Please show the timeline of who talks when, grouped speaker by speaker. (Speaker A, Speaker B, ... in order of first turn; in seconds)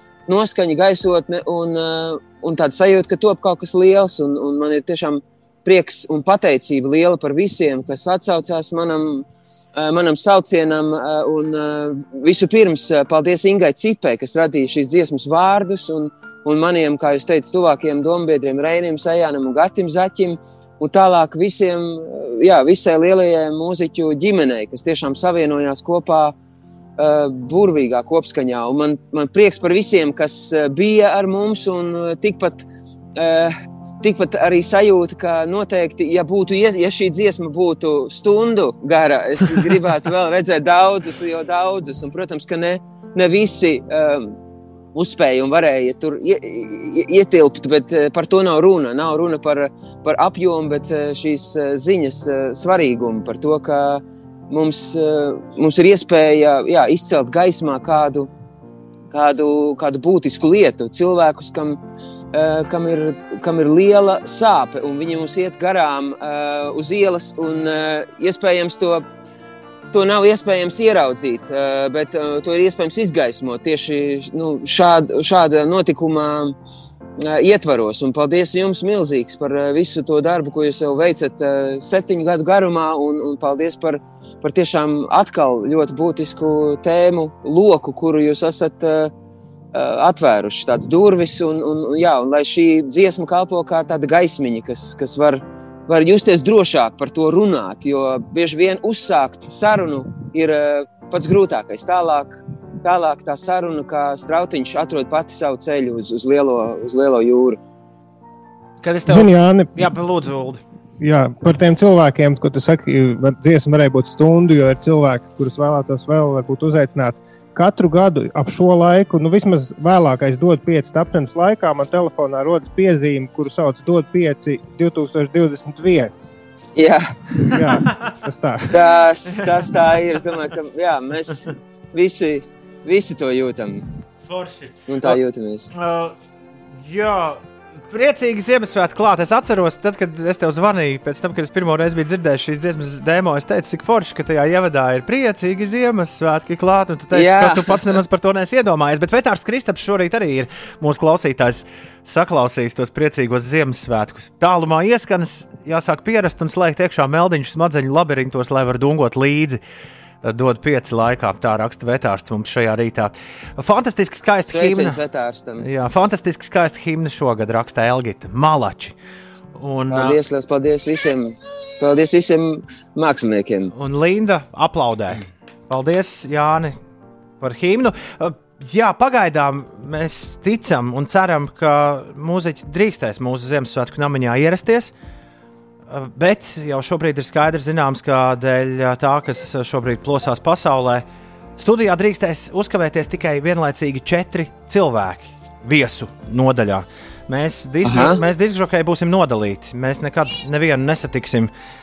Speaker A: 0.3-26.4, 27.0-44.4, 44.9-58.3, 59.1-61.8, 62.3-69.0, 69.9-76.5, 77.2-89.1, 89.7-107.6, 126.8-127.1, 128.7-133.8, 134.9-135.7, 147.1-147.9, 164.5-165.6, 169.9-173.7, 197.8-198.2
Speaker B: 108.8-110.6, 134.3-135.2, 135.7-136.1, 136.8-159.6, 160.2-165.0, 165.6-168.9, 169.6-170.2, 173.7-176.8, 177.4-184.9, 185.9-191.1, 191.6-201.5
Speaker C: 109.1-109.8, 111.0-126.4, 127.5-129.0